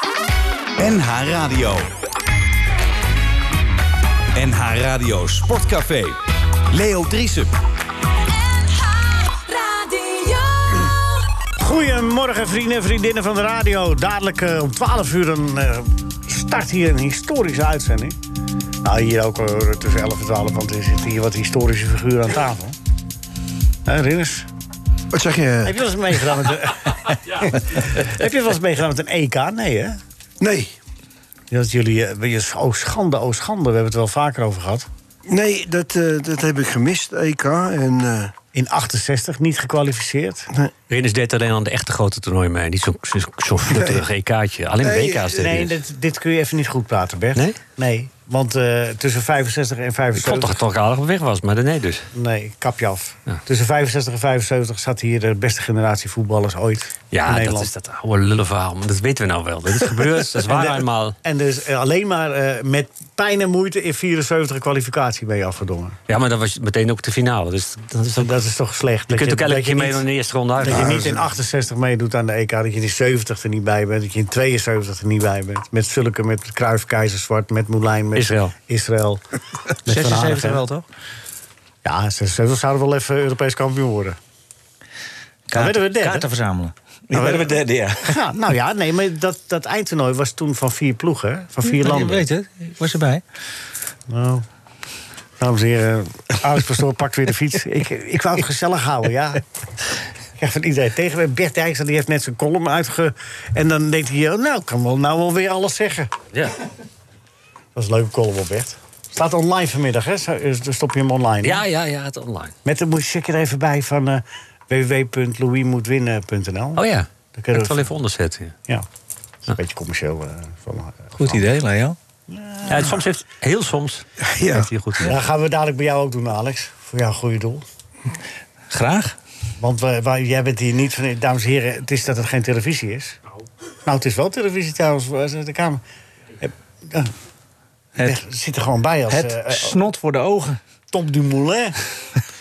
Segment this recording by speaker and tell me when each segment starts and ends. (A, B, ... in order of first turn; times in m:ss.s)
0:00.8-0:01.9 A
0:04.3-0:07.5 A
0:08.2-0:11.2 B
0:11.6-0:18.2 C
0:18.8-0:22.8 C
0:23.8-0:24.5 C
0:25.1-0:25.8 D
0:25.6-0:30.0 C
0:30.4-0:30.7 D
0:31.5-0:34.9 C
0:35.3-0:38.3 D
0:38.5-0:40.5 C
0:40.9-0:45.8 B
0:43.7-0:44.0 D
0:44.8-0:45.5 D
0:45.4-0:50.6 C
0:50.2-0:52.1 B
0:52.1-0:57.7 C
0:57.1-1:01.2 B
0:59.8-1:06.0 C
1:06.1-1:08.3 B
1:08.2-1:10.0 C
1:09.1-1:11.2 B
1:10.6-1:19.2 C
1:10.7-1:11.1 D
1:18.2-1:18.5 B
1:19.8-1:20.6 C
1:19.8-1:20.8 E
1:21.8-1:24.2 C
1:25.5-1:28.2 E
1:25.5-1:26.3 C
1:27.1-1:32.3 C
1:31.6-1:33.2 E
1:34.1-1:34.4 C
1:35.4-1:39.4 C
1:40.4-1:46.1 C
1:47.7-1:51.6 C
1:51.4-1:52.5 B
1:52.6-1:57.9 C
1:56.8-1:58.5 B
1:59.5-2:01.4 C
2:01.2-2:02.0 E
2:02.3-2:03.0 C
2:02.6-2:05.2 B
2:04.2-2:04.7 D
2:05.0-2:07.6 C
2:08.7-2:09.2 E
2:09.6-2:13.2 C
2:13.8-2:15.8 C
2:16.4-2:17.1 C
2:18.0-2:19.7 C
2:19.1-2:20.6 E
2:20.9-2:21.8 C